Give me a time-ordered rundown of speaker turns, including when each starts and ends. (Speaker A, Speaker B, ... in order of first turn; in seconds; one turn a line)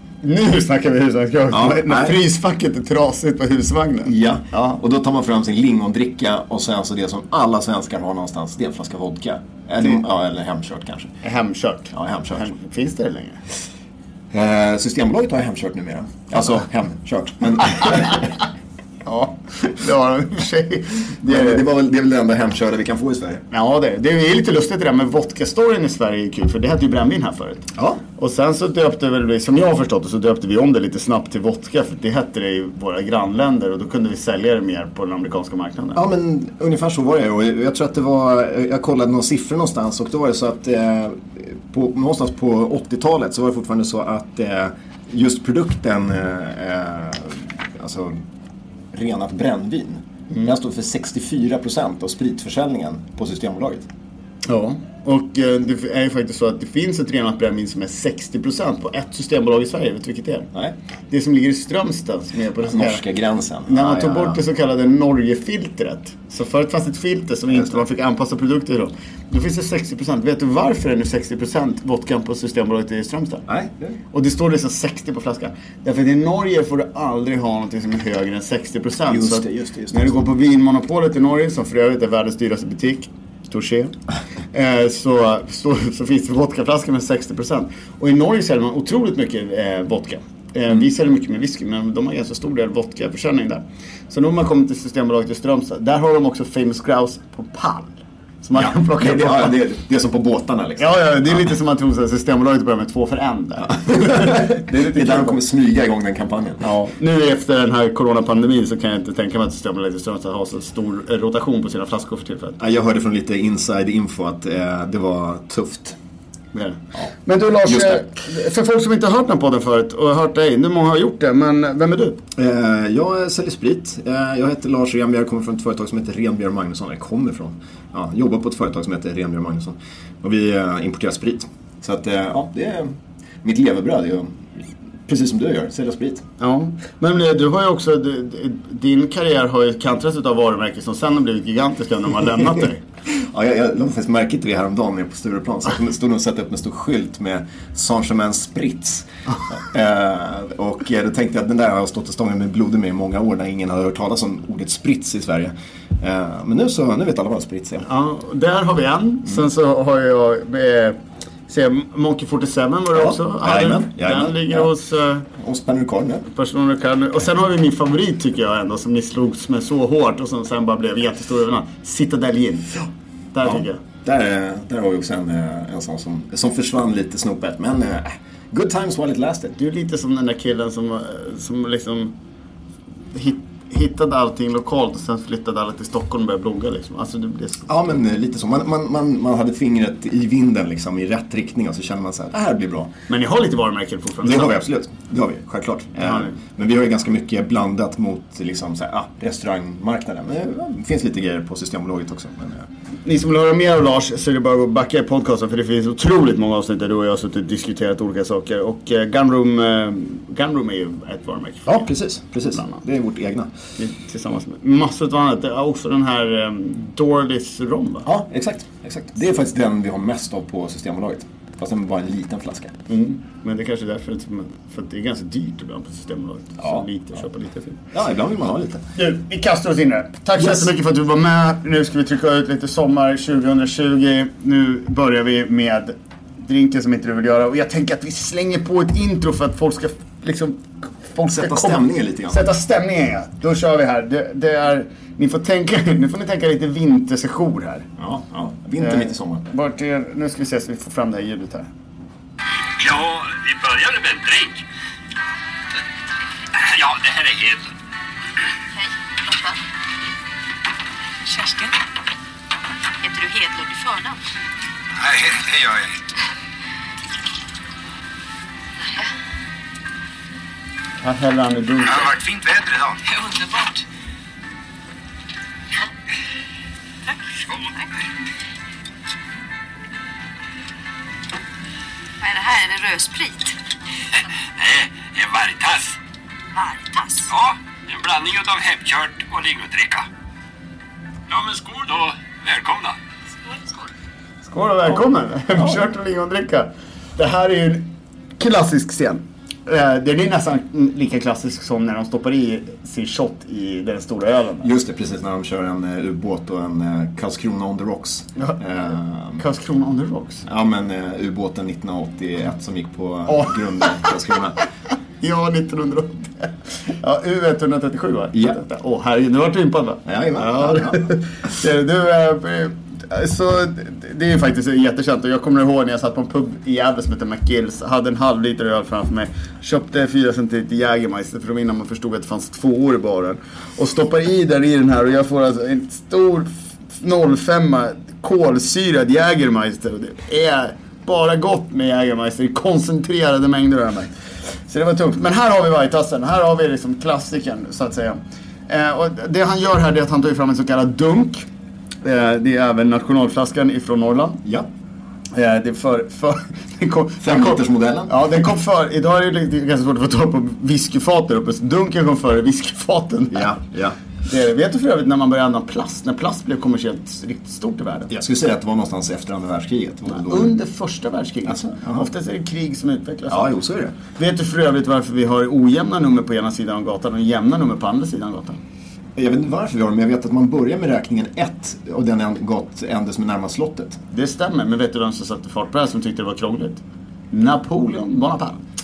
Speaker A: 0.2-4.8
Speaker B: 1.5-2.2
Speaker B: 4.0-11.1
Speaker A: 11.2-13.4
Speaker B: 11.9-12.5
Speaker B: 14.3-18.3
Speaker A: 19.0-21.6
Speaker B: 21.2-23.4
Speaker A: 23.5-36.0
Speaker B: 27.8-28.0
Speaker B: 35.9-48.2
Speaker B: 48.9-53.9
Speaker A: 54.5-60.5
Speaker A: 61.1-63.0
Speaker B: 62.6-64.4
Speaker A: 63.6-73.4
Speaker B: 73.5-74.0
Speaker A: 74.1-83.9
Speaker B: 79.0-80.2
Speaker A: 84.5-99.5
Speaker B: 98.5-101.4
Speaker A: 100.8-105.4
Speaker B: 103.7-106.6
Speaker A: 106.6-112.6
Speaker B: 112.6-116.0
Speaker A: 116.5-122.2
Speaker B: 117.6-118.0
Speaker B: 122.3-132.9
Speaker B: 133.4-134.4
Speaker B: 135.1-136.2
Speaker A: 136.4-142.8
Speaker B: 143.1-157.8
Speaker A: 157.8-165.3
Speaker B: 162.9-164.7
Speaker B: 165.3-166.3
Speaker A: 166.3-173.8
Speaker B: 173.4-179.5
Speaker A: 179.6-182.1
Speaker A: 183.1-187.7
Speaker B: 187.7-192.9
Speaker A: 193.1-194.5
Speaker B: 194.2-202.7
Speaker A: 196.0-196.4
Speaker A: 203.0-211.8
Speaker B: 211.7-213.5
Speaker A: 213.8-218.1
Speaker B: 218.0-222.7
Speaker A: 222.9-227.8
Speaker B: 227.9-228.8
Speaker A: 228.9-247.9
Speaker B: 230.4-230.7
Speaker B: 241.3-242.4
Speaker B: 248.0-249.4
Speaker A: 248.8-251.7
Speaker C: 252.8-254.6
Speaker C: 256.5-257.7
Speaker D: 258.7-259.6
Speaker D: 261.2-261.8
Speaker D: 263.0-264.2
Speaker C: 264.9-265.9
Speaker A: 271.0-272.1
Speaker C: 271.8-273.0
Speaker D: 273.0-273.8
Speaker D: 282.2-283.6
Speaker C: 284.6-285.9
Speaker D: 286.5-287.3
Speaker C: 287.4-290.0
Speaker C: 291.3-292.9
Speaker A: 294.4-297.9
Speaker B: 295.5-295.8
Speaker A: 298.4-304.7
Speaker B: 304.6-309.4
Speaker A: 309.4-310.4
Speaker B: 310.4-314.6
Speaker A: 313.3-314.1
Speaker A: 315.2-344.1
Speaker B: 320.0-321.0
Speaker A: 344.6-351.5
Speaker A: 352.0-354.4
Speaker A: 355.3-363.5
Speaker B: 357.2-358.1
Speaker B: 363.3-364.0
Speaker A: 364.2-368.1
Speaker B: 368.1-370.5
Speaker A: 370.1-373.5
Speaker B: 371.4-372.1
Speaker B: 373.3-373.9
Speaker A: 374.1-378.6
Speaker B: 379.1-384.0
Speaker A: 384.1-388.6